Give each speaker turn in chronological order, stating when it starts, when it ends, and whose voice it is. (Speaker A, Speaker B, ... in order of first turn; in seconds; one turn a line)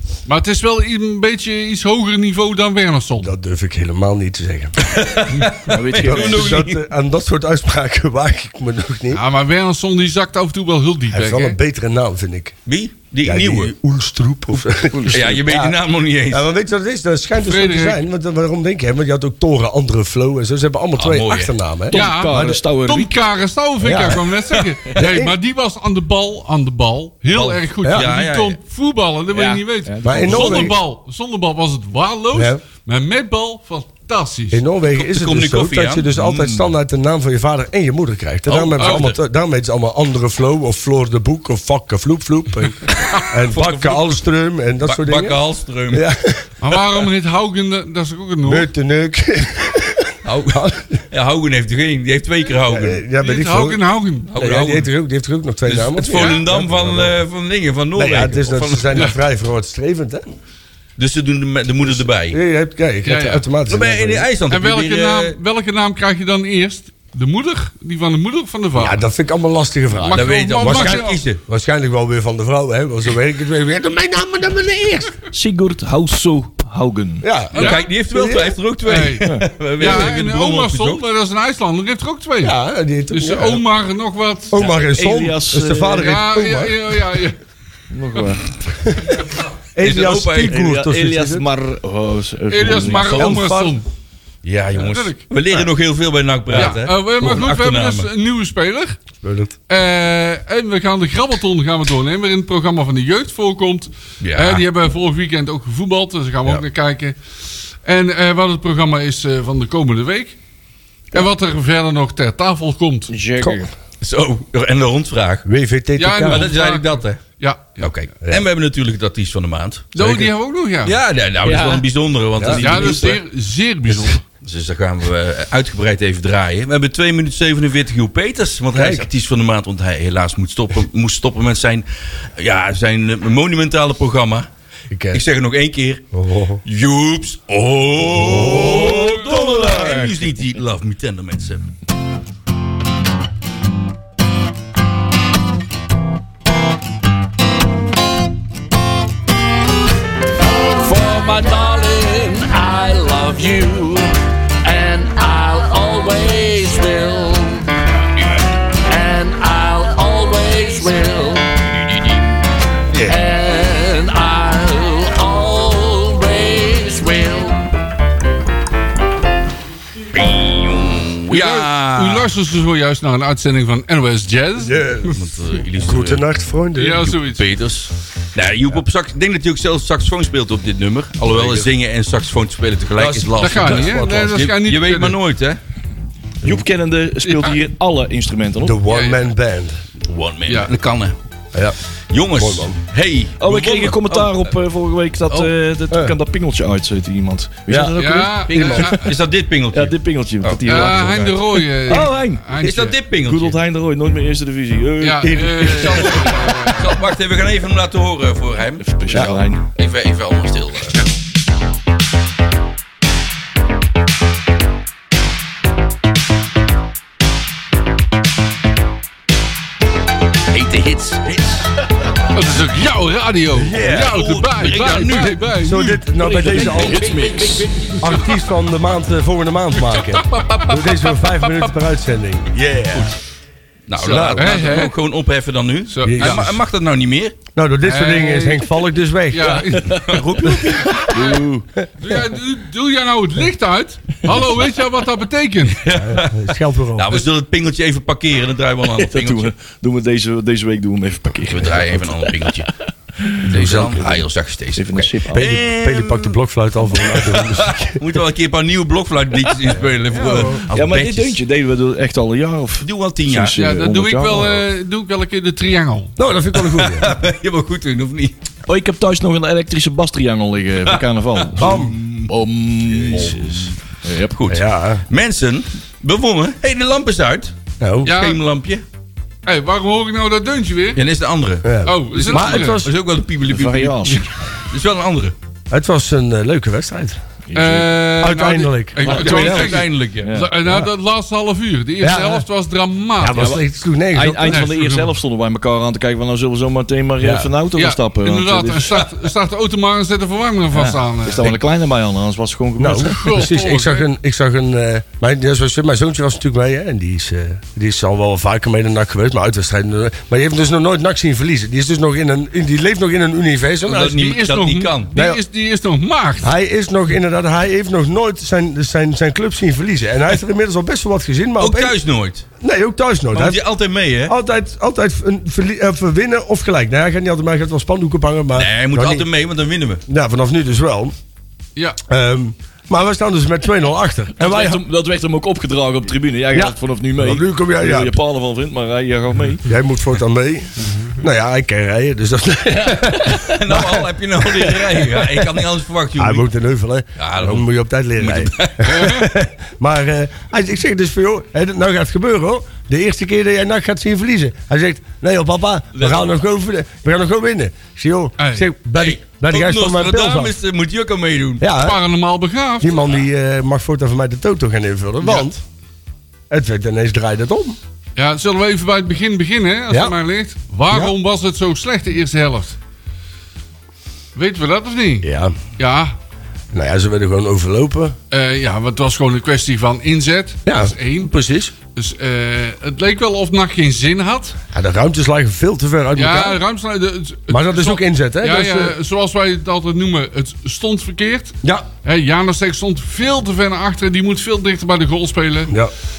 Speaker A: 0.3-3.3
Speaker B: 3.2-4.8
Speaker C: 4.8-6.8
Speaker D: 5.7-6.6
Speaker B: 6.0-9.2
Speaker A: 9.1-11.6
Speaker B: 11.1-12.5
Speaker C: 12.7-13.7
Speaker B: 13.2-15.8
Speaker D: 14.9-15.4
Speaker C: 15.1-16.5
Speaker B: 16.3-22.6
Speaker A: 17.4-18.0
Speaker C: 21.0-21.5
Speaker D: 21.9-23.1
Speaker A: 21.9-34.6
Speaker B: 23.8-24.3
Speaker B: 24.9-25.4
Speaker C: 27.3-28.6
Speaker D: 29.3-30.8
Speaker B: 30.0-30.8
Speaker B: 32.3-32.6
Speaker B: 34.5-45.4
Speaker C: 34.9-36.7
Speaker C: 38.5-39.2
Speaker A: 38.8-39.1
Speaker C: 43.5-44.2
Speaker C: 44.8-46.0
Speaker B: 45.9-46.4
Speaker A: 46.6-48.7
Speaker B: 48.5-51.0
Speaker C: 50.2-53.0
Speaker B: 52.7-53.8
Speaker A: 53.2-54.3
Speaker C: 54.3-54.9
Speaker B: 54.3-57.2
Speaker C: 55.7-59.0
Speaker B: 58.0-60.2
Speaker C: 61.0-62.4
Speaker B: 61.9-64.3
Speaker A: 63.0-63.5
Speaker C: 63.7-65.4
Speaker A: 64.5-69.0
Speaker B: 68.8-75.3
Speaker A: 69.9-71.2
Speaker C: 70.1-71.4
Speaker D: 75.3-77.3
Speaker B: 77.2-78.6
Speaker C: 77.5-81.0
Speaker A: 77.5-77.8
Speaker A: 78.9-82.5
Speaker B: 79.8-80.1
Speaker B: 82.4-83.6
Speaker A: 83.1-84.7
Speaker B: 84.5-87.2
Speaker D: 84.7-86.2
Speaker A: 86.0-87.4
Speaker D: 87.9-88.6
Speaker B: 89.8-91.5
Speaker C: 89.8-90.6
Speaker D: 90.5-93.4
Speaker A: 92.5-93.8
Speaker B: 92.7-93.8
Speaker C: 94.4-98.1
Speaker A: 94.7-95.3
Speaker A: 96.5-99.0
Speaker B: 99.2-99.5
Speaker A: 99.7-107.2
Speaker C: 104.2-104.7
Speaker A: 107.8-110.4
Speaker A: 111.1-113.1
Speaker D: 113.1-113.7
Speaker C: 114.0-115.5
Speaker B: 115.5-116.5
Speaker A: 116.0-117.9
Speaker C: 116.2-117.2
Speaker C: 117.8-120.1
Speaker A: 119.9-121.0
Speaker B: 120.0-120.3
Speaker C: 120.8-123.2
Speaker D: 121.4-121.8
Speaker B: 122.4-122.6
Speaker D: 122.4-123.2
Speaker A: 122.6-124.2
Speaker C: 124.4-131.9
Speaker B: 128.7-129.1
Speaker C: 132.4-134.5
Speaker B: 134.9-135.2
Speaker C: 135.1-136.0
Speaker B: 136.1-136.6
Speaker C: 136.7-141.7
Speaker B: 138.1-140.2
Speaker E: 150.6-154.1
Speaker E: 154.6-157.7
Speaker E: 158.8-161.9
Speaker E: 163.0-167.7
Speaker C: 170.1-172.3
Speaker A: 171.3-175.1
Speaker B: 174.6-175.2
Speaker C: 175.1-176.2
Speaker B: 175.8-177.1
Speaker A: 176.8-177.4
Speaker C: 176.9-185.6
Speaker B: 181.3-181.7
Speaker B: 183.0-184.5
Speaker A: 183.4-185.2
Speaker D: 186.4-188.8
Speaker A: 187.2-187.6
Speaker B: 188.6-189.8
Speaker A: 188.9-189.3
Speaker C: 190.0-191.1
Speaker A: 190.5-190.7
Speaker C: 192.1-194.5
Speaker B: 192.4-192.8
Speaker D: 193.4-198.5
Speaker C: 195.3-195.5
Speaker B: 195.9-196.2
Speaker B: 197.7-198.0
Speaker A: 198.0-199.1
Speaker B: 198.5-198.9
Speaker C: 198.5-201.3
Speaker D: 199.7-202.4
Speaker A: 200.7-203.0
Speaker C: 202.6-203.6
Speaker D: 203.2-205.4
Speaker A: 205.0-207.0
Speaker B: 205.2-206.2
Speaker C: 205.6-211.0
Speaker D: 208.8-209.7
Speaker B: 209.1-209.4
Speaker C: 220.5-221.7
Speaker A: 222.3-226.1
Speaker B: 223.5-224.2
Speaker C: 223.9-225.4
Speaker B: 225.6-227.3
Speaker D: 226.2-227.9
Speaker C: 226.7-227.6
Speaker B: 227.9-232.5
Speaker C: 230.3-231.0
Speaker C: 232.5-233.2
Speaker C: 233.9-237.4
Speaker A: 234.0-234.9
Speaker B: 234.0-234.6
Speaker A: 235.9-236.5
Speaker B: 236.0-236.6
Speaker B: 237.6-239.7
Speaker A: 237.8-240.1
Speaker C: 239.7-241.1
Speaker B: 240.5-240.9
Speaker A: 240.9-241.4
Speaker D: 240.9-241.7
Speaker A: 242.0-245.8
Speaker C: 245.8-246.4
Speaker B: 246.0-247.2
Speaker C: 246.9-249.5
Speaker D: 248.9-252.6
Speaker C: 251.5-252.7
Speaker D: 253.2-254.2
Speaker C: 253.4-261.4
Speaker B: 253.5-254.0
Speaker D: 254.8-255.4
Speaker B: 255.3-258.0
Speaker B: 260.1-260.7
Speaker D: 260.7-264.6
Speaker C: 262.8-263.6
Speaker A: 263.6-266.2
Speaker B: 266.2-267.1
Speaker C: 266.7-268.4
Speaker D: 268.7-274.4
Speaker C: 270.9-272.3
Speaker B: 271.6-271.9
Speaker C: 272.9-273.6
Speaker C: 274.3-277.5
Speaker B: 274.5-275.0
Speaker B: 277.8-278.1
Speaker A: 278.0-278.4
Speaker C: 278.1-278.8
Speaker A: 279.4-281.0
Speaker C: 280.9-285.3
Speaker B: 281.6-282.9
Speaker A: 281.8-282.8
Speaker D: 283.5-284.3
Speaker B: 285.7-287.2
Speaker D: 287.5-288.0
Speaker A: 287.6-293.6
Speaker B: 288.2-289.8
Speaker D: 289.0-290.5
Speaker C: 289.0-290.3
Speaker B: 292.0-292.4
Speaker B: 293.2-294.7
Speaker D: 293.4-293.6
Speaker D: 294.1-299.1
Speaker A: 294.4-295.1
Speaker B: 297.2-297.5
Speaker A: 297.8-301.6
Speaker D: 300.7-303.3
Speaker B: 302.8-314.4
Speaker A: 303.0-304.1
Speaker C: 313.9-315.1
Speaker A: 314.2-316.5
Speaker B: 316.4-321.9
Speaker C: 321.6-322.5
Speaker B: 322.6-323.6
Speaker C: 323.3-324.4
Speaker B: 324.2-329.3
Speaker C: 328.6-330.0
Speaker B: 330.1-331.1
Speaker B: 332.1-334.8
Speaker D: 334.4-339.7
Speaker B: 336.5-338.2
Speaker B: 339.6-345.5
Speaker C: 343.1-346.5
Speaker B: 346.2-360.5
Speaker C: 347.2-347.7
Speaker C: 348.2-349.3
Speaker C: 355.9-356.3
Speaker A: 358.4-358.7
Speaker C: 359.0-361.6
Speaker B: 361.6-362.0
Speaker A: 361.8-363.0
Speaker B: 362.8-365.6
Speaker B: 366.5-367.8
Speaker A: 368.2-372.8
Speaker B: 369.9-370.1
Speaker A: 374.4-376.2
Speaker B: 375.2-375.6
Speaker B: 376.7-378.2
Speaker A: 378.3-381.3
Speaker B: 380.7-381.7
Speaker A: 381.9-384.6
Speaker B: 384.7-386.6
Speaker A: 386.1-395.8
Speaker B: 387.5-389.0